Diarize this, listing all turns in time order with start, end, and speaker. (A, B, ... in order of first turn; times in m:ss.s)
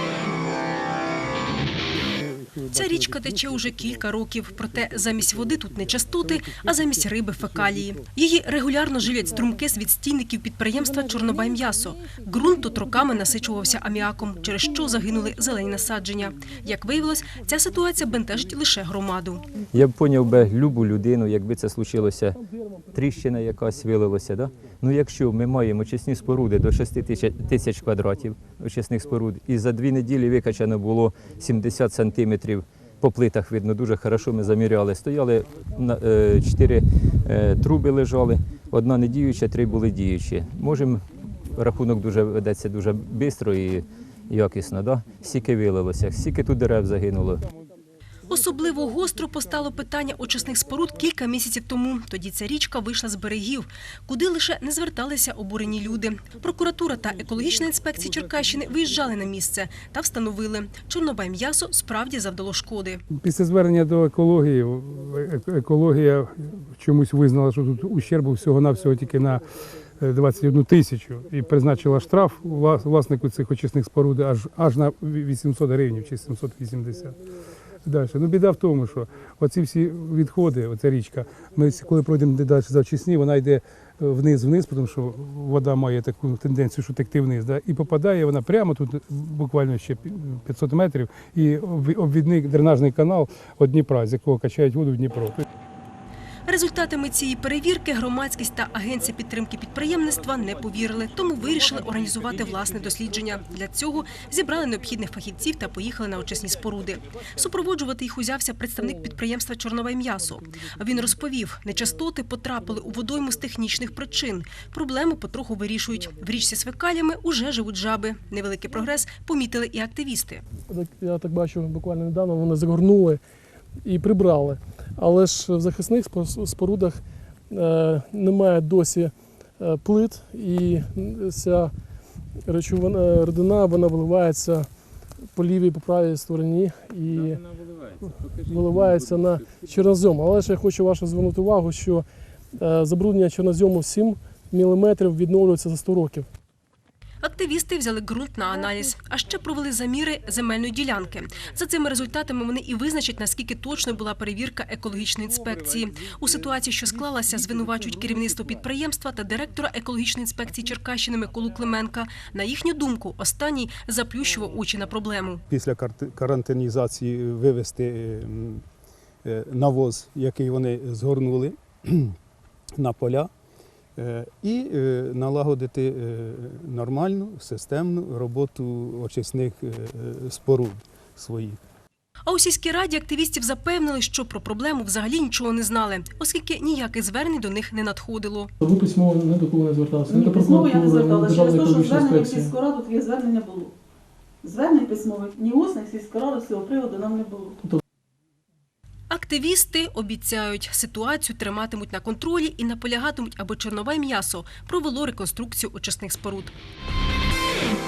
0:02.4-0:19.4 A
0:19.7-0:22.4 B
0:22.9-0:47.4 B
0:48.3-1:03.0 A
1:03.2-1:09.4 C
1:10.0-1:17.1 C
1:17.8-1:35.4 C
1:36.5-2:00.4 A
2:00.7-2:03.2 D
2:03.8-2:11.7 D
2:12.4-2:17.4 D
2:18.0-2:26.3 D
2:27.2-2:45.4 A
2:45.5-2:48.6 E
2:49.2-2:52.1 E
2:52.8-2:53.3 E
2:54.0-3:01.6 E
3:02.2-3:08.5 A
3:08.6-3:12.6 D
3:10.1-3:13.7 F
3:14.4-3:17.6 F
3:19.1-3:26.5 A